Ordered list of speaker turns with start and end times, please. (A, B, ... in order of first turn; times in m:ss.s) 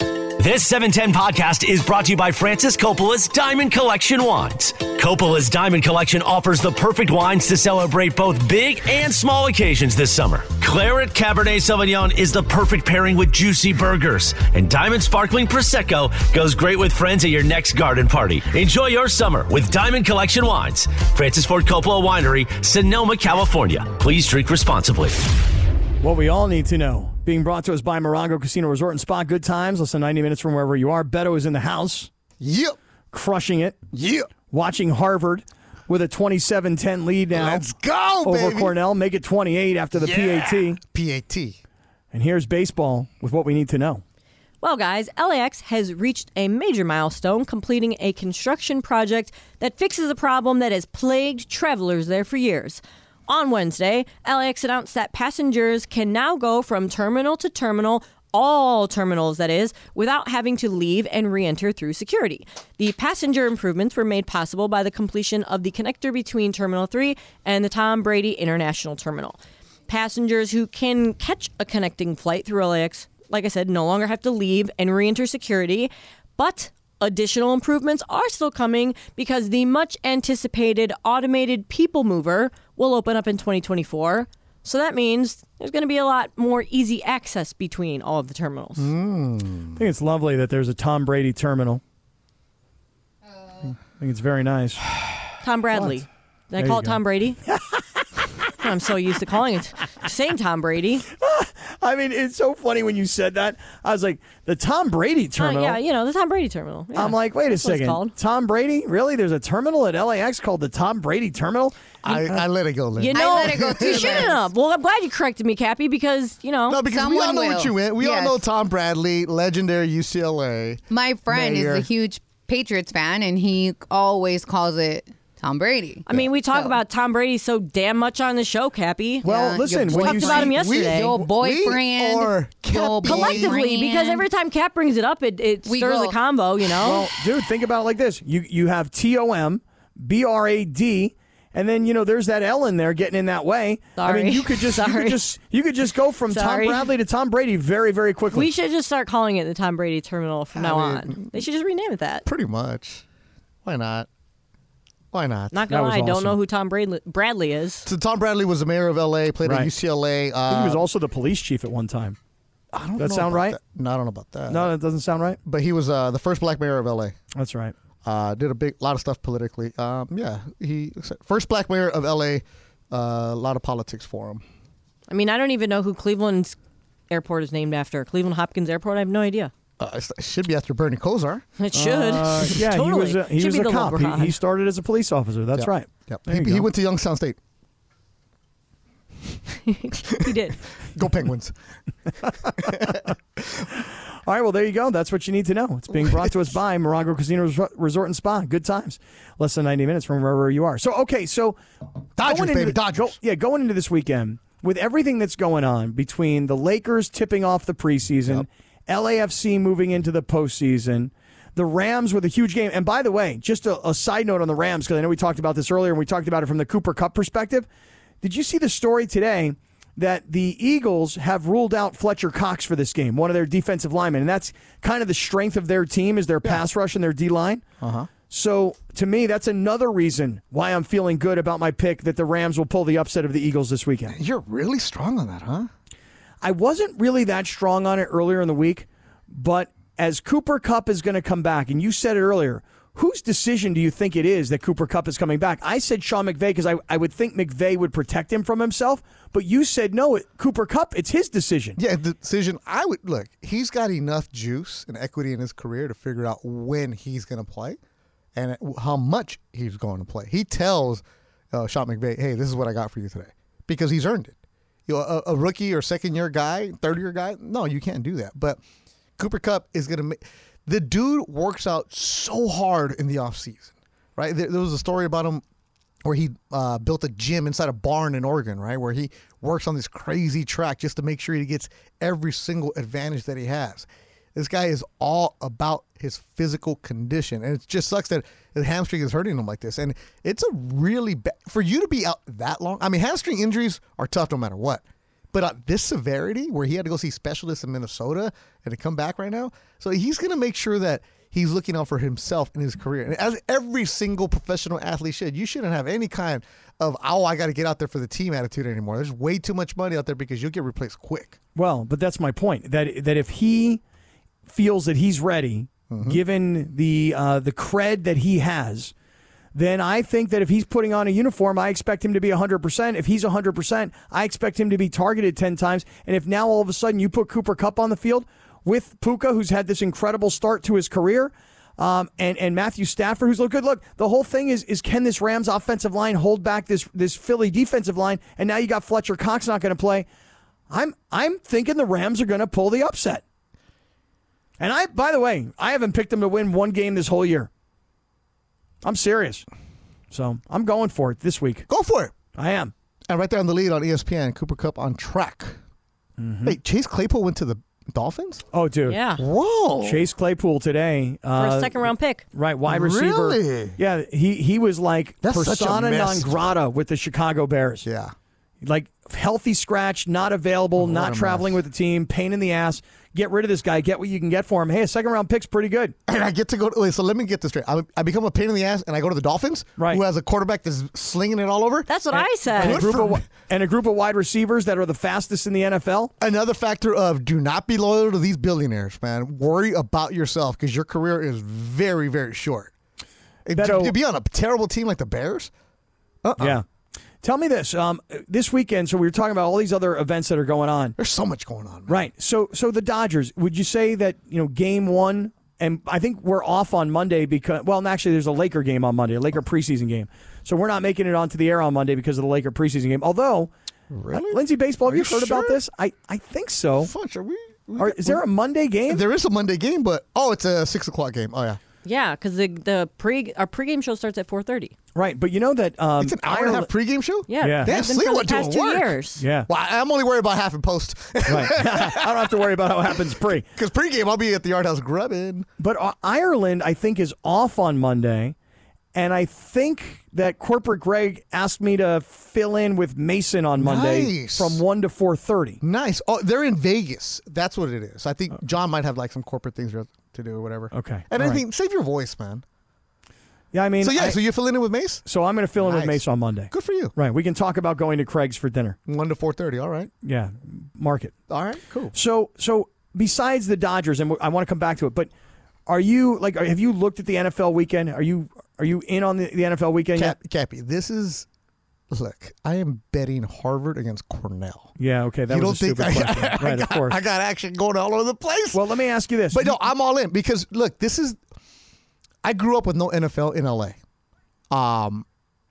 0:00.4-0:25.3 A
0:26.0-0:32.1 B
0:32.4-0:32.8 C
0:33.1-0:33.8 B
0:33.9-0:34.3 C
0:34.5-0:37.6 B
0:37.3-0:38.7 C
0:38.2-0:40.8 B
0:40.0-0:41.6 C
0:42.1-0:44.0 B
0:44.6-1:28.9 D
1:28.8-1:29.8 C
1:29.8-1:31.8 B
1:33.8-1:34.8 B
1:35.4-1:37.4 D
1:35.7-1:36.0 B
1:36.6-1:38.2 B
1:38.6-1:41.0 D
1:41.2-1:45.8 B
1:45.4-1:48.1 D
1:46.9-1:52.4 B
1:52.0-1:54.4 C
1:53.0-1:56.8 D
1:53.1-1:54.4 E
1:56.7-2:01.9 C
1:56.9-1:58.4 E
2:00.9-2:06.7 E
2:06.0-2:11.1 D
2:09.2-2:10.5 B
2:09.6-2:13.6 C
2:10.0-2:14.2 E
2:13.0-2:17.1 D
2:15.6-2:16.2 E
2:16.8-2:28.5 B
2:24.0-2:25.2 D
2:26.3-2:26.9 D
2:28.3-2:32.2 D
2:30.5-2:31.4 C
2:32.2-2:33.0 C
2:33.6-2:34.1 C
2:35.1-2:35.5 C
2:35.5-2:37.9 D
2:35.7-2:36.4 B
2:37.8-2:40.8 C
2:39.4-2:39.7 B
2:40.5-2:42.2 B
2:42.7-2:44.7 C
2:43.0-2:43.6 B
2:44.5-2:45.4 B
2:45.4-2:47.2 C
2:47.3-2:47.7 B
2:48.0-2:54.4 C
2:55.1-2:56.6 D
2:57.1-2:59.5 D
2:59.8-3:01.4 C
3:01.6-3:04.4 D
3:01.7-3:06.7 B
3:05.5-3:07.4 C
3:09.7-3:10.6 D
3:10.9-3:11.5 C
3:12.6-3:13.6 C
3:13.8-3:21.6 B
3:15.9-3:16.6 C
3:22.2-3:23.2 C
3:22.2-3:37.7 B
3:38.2-3:47.6 B
3:47.8-3:48.1 C
3:48.2-3:54.2 B
3:54.1-3:55.7 C
3:56.4-4:11.8 B
4:11.8-4:17.8 C
4:18.3-4:24.4 C
4:24.9-4:28.6 C
4:29.2-4:35.4 C
4:36.0-5:11.4 C
5:11.5-5:13.8 B
5:14.5-5:18.9 B
5:15.9-5:16.2 C
5:19.5-5:40.1 B
5:40.7-5:43.2 B
5:44.6-5:47.5 B
5:48.8-5:49.4 B
5:50.1-5:51.7 B
5:51.7-5:52.2 C
5:52.3-5:52.7 B
5:53.1-5:55.6 C
5:56.2-5:56.6 B
5:56.4-5:58.4 C
5:58.5-5:59.0 B
5:58.9-5:59.2 D
5:59.2-6:00.0 C
5:59.8-6:07.8 B
6:01.3-6:02.2 D
6:02.6-6:03.8 C
6:05.2-6:06.4 C
6:07.8-6:08.1 C
6:08.6-6:15.9 B
6:10.8-6:11.6 C
6:16.1-6:21.9 C
6:19.8-6:20.0 B
6:21.9-6:22.8 D
6:22.1-6:26.1 B
6:22.6-6:23.3 C
6:26.2-6:32.7 C
6:33.4-6:35.5 C
6:33.5-6:34.0 B
6:36.2-6:36.6 C
6:36.4-6:36.6 B
6:37.2-6:41.0 B
6:41.0-6:41.9 C
6:41.9-6:53.5 B
6:53.9-6:55.6 C
6:54.1-6:56.9 B
6:56.8-6:58.2 C
6:57.8-6:59.0 B
6:58.9-7:01.6 C
7:01.8-7:04.7 D
7:04.9-7:06.7 B
7:06.0-7:08.9 C
7:07.3-7:09.2 D
7:07.4-7:07.7 B
7:09.2-7:09.5 B
7:09.5-7:15.5 C
7:11.3-7:13.4 B
7:15.6-7:18.3 B
7:18.9-7:25.6 B
7:23.6-7:24.6 C
7:25.6-7:32.4 C
7:30.7-7:31.4 B
7:33.5-7:34.2 B
7:33.8-7:35.0 C
7:35.0-7:38.8 B
7:35.6-7:36.9 C
7:38.8-7:39.9 C
7:40.0-7:41.1 B
7:41.3-7:41.9 C
7:41.9-7:45.1 B
7:45.6-7:50.2 B
7:50.0-7:51.2 C
7:51.9-7:54.7 C
7:54.8-7:57.0 B
7:55.3-7:58.6 C
7:58.5-7:59.6 B
7:59.3-8:01.2 C
8:02.2-8:03.8 C
8:04.5-8:05.0 C